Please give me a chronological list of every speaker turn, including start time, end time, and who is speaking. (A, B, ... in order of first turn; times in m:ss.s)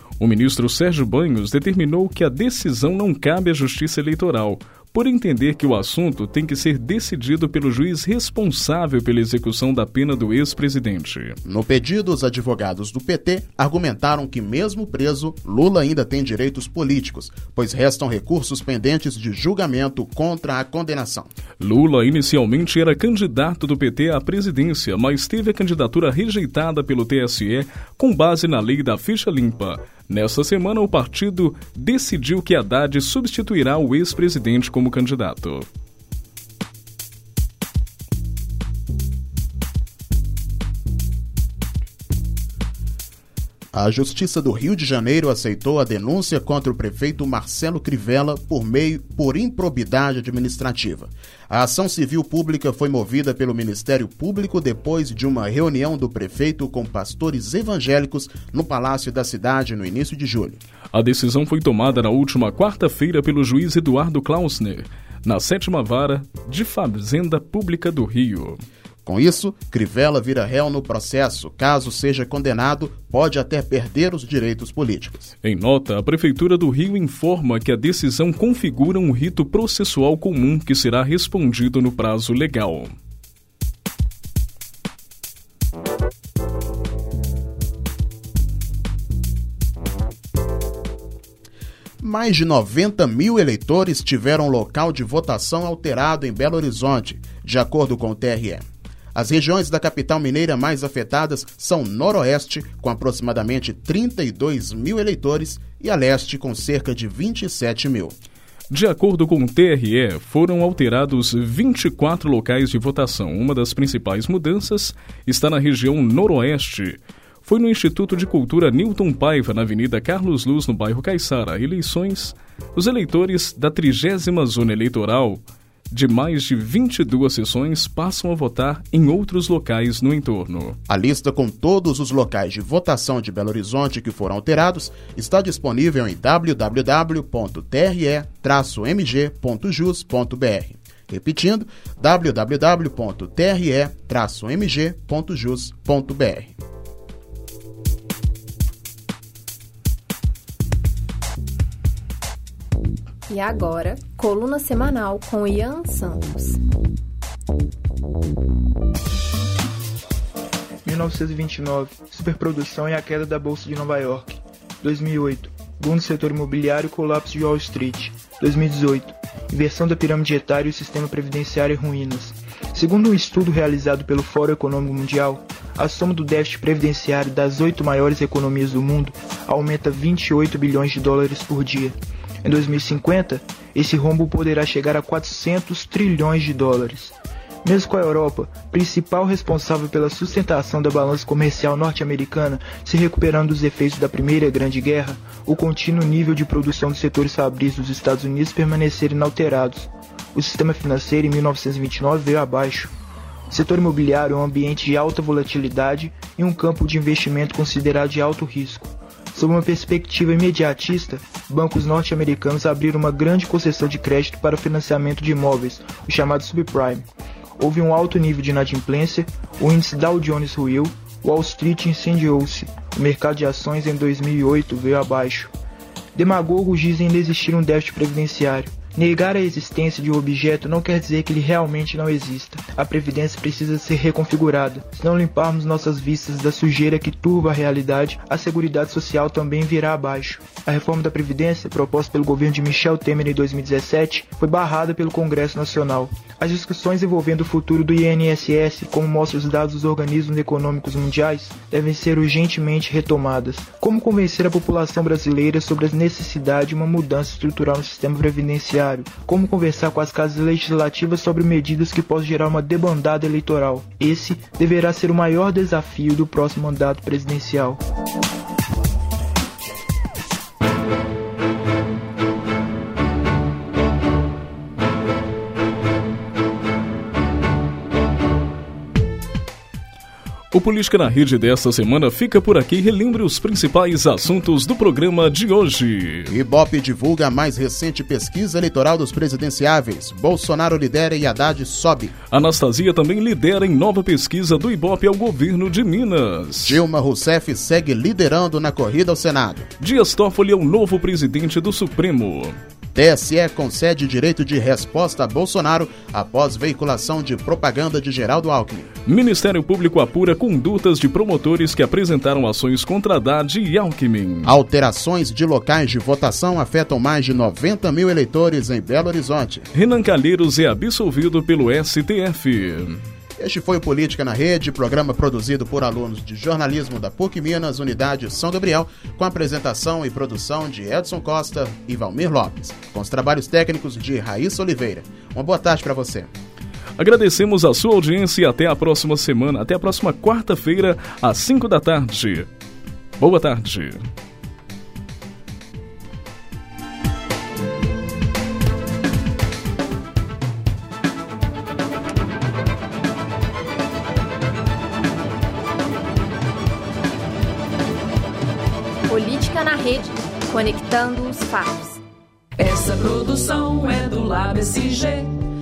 0:00.2-0:11.4 A
0:11.4-0:21.3 B
0:21.6-0:35.6 A
0:43.7-1:00.6 B
1:00.9-1:08.6 A
1:09.0-1:15.3 B
1:15.4-1:22.9 A
1:32.0-1:38.6 B
1:39.1-1:48.1 B
1:48.7-2:10.8 A
2:10.9-2:26.5 B
2:33.3-2:36.6 C
2:40.8-3:22.9 D
3:23.5-3:37.0 D
3:37.6-3:45.5 D
3:46.1-4:27.8 D
4:40.5-4:46.3 A
4:46.3-4:52.1 B
4:52.3-4:56.8 A
4:56.6-4:59.7 B
4:59.8-5:02.6 A
5:02.9-5:08.9 B
5:09.0-5:14.6 A
5:14.4-5:19.7 B
5:19.7-5:23.0 A
5:23.4-5:36.3 B
5:37.0-5:42.5 A
5:43.2-5:44.0 A
5:59.1-6:02.0 C
6:02.6-6:05.4 E